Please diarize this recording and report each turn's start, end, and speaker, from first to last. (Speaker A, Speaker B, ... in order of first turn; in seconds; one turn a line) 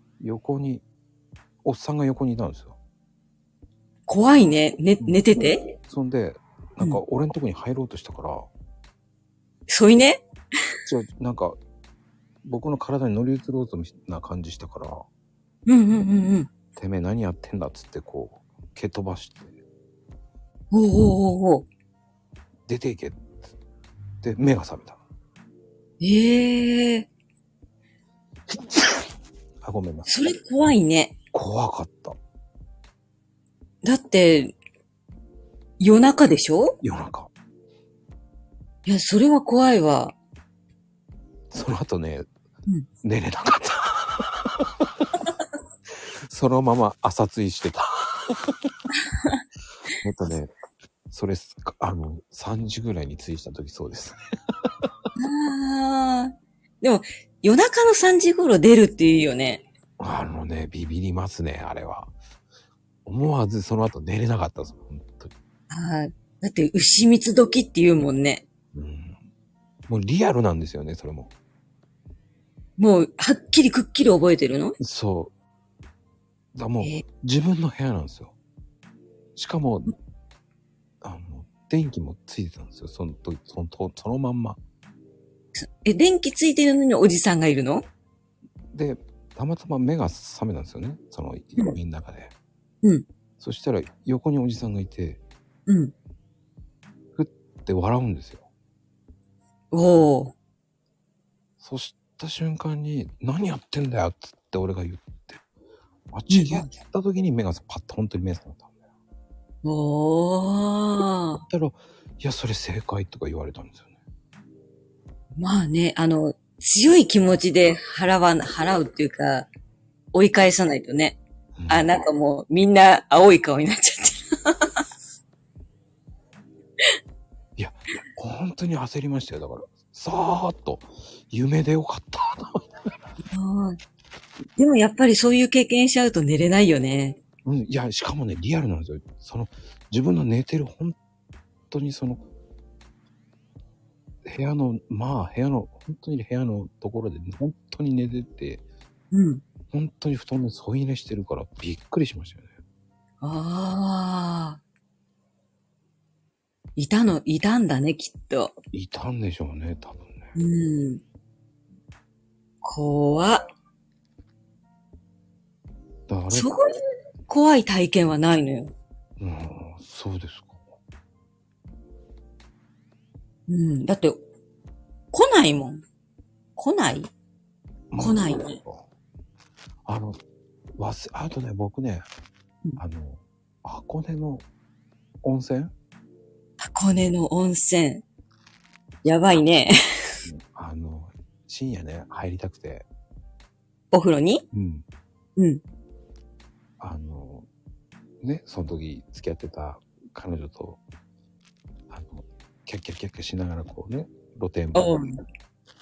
Speaker A: 0.2-0.8
Speaker A: 1.6-2.8
Speaker B: 4.1-5.7
Speaker A: 5.8-8.5
Speaker B: 9.7-10.2
Speaker A: 10.8-11.6
Speaker A: 12.4-15.0
Speaker B: 15.7-16.5
Speaker A: 16.8-19.5
Speaker B: 20.7-21.7
Speaker A: 22.7-23.5
Speaker A: 24.2-25.0
Speaker B: 26.0-27.1
Speaker A: 28.5-28.9
Speaker A: 29.6-30.1
Speaker B: 30.1-31.1
Speaker A: 31.3-32.2
Speaker B: 33.8-34.5
Speaker B: 35.8-36.8
Speaker A: 36.8-37.3
Speaker B: 38.9-40.1
Speaker A: 41.5-42.3
Speaker A: 43.0-45.1
Speaker A: 46.2-48.5
Speaker B: 49.0-49.4
Speaker A: 50.0-50.5
Speaker A: 51.1-54.2
Speaker B: 55.1-59.6
Speaker A: 60.0-62.1
Speaker A: 63.0-65.3
Speaker B: 65.7-68.4
Speaker A: 68.7-69.2
Speaker A: 69.9-71.3
Speaker B: 72.8-74.8
Speaker A: 74.8-75.3
Speaker A: 76.5-78.3
Speaker A: 79.3-79.9
Speaker A: 81.0-84.6
Speaker B: 85.6-87.9
Speaker A: 88.7-92.3
Speaker A: 93.4-95.2
Speaker B: 95.7-95.9
Speaker A: 97.2-98.4
Speaker B: 99.7-100.3
Speaker A: 101.6-105.4
Speaker A: 106.1-108.7
Speaker B: 106.3-106.7
Speaker B: 109.6-111.4
Speaker A: 111.4-113.9
Speaker B: 115.4-119.5
Speaker B: 120.1-121.2
Speaker A: 121.5-121.9
Speaker B: 121.7-124.7
Speaker A: 127.6-132.7
Speaker B: 133.3-133.8
Speaker B: 134.6-137.2
Speaker A: 137.4-141.0
Speaker A: 141.7-142.2
Speaker A: 144.2-148.6
Speaker B: 149.1-149.4
Speaker A: 149.7-152.5
Speaker B: 153.2-154.6
Speaker B: 156.8-158.5
Speaker A: 158.7-160.3
Speaker B: 160.3-161.0
Speaker B: 162.6-163.5
Speaker A: 166.1-166.5
Speaker B: 166.3-168.7
Speaker A: 169.2-170.6
Speaker B: 173.5-174.2
Speaker B: 175.1-175.8
Speaker B: 176.6-177.1
Speaker A: 177.9-178.8
Speaker B: 178.0-178.6
Speaker A: 179.8-180.2
Speaker A: 180.8-182.1
Speaker A: 182.8-184.4
Speaker A: 185.2-185.7
Speaker B: 186.6-188.0
Speaker B: 189.0-190.1
Speaker A: 190.2-192.8
Speaker B: 193.9-194.4
Speaker A: 194.5-194.8
Speaker B: 195.4-195.6
Speaker A: 196.8-197.5
Speaker A: 198.2-200.8
Speaker A: 201.9-205.0
Speaker B: 204.7-205.2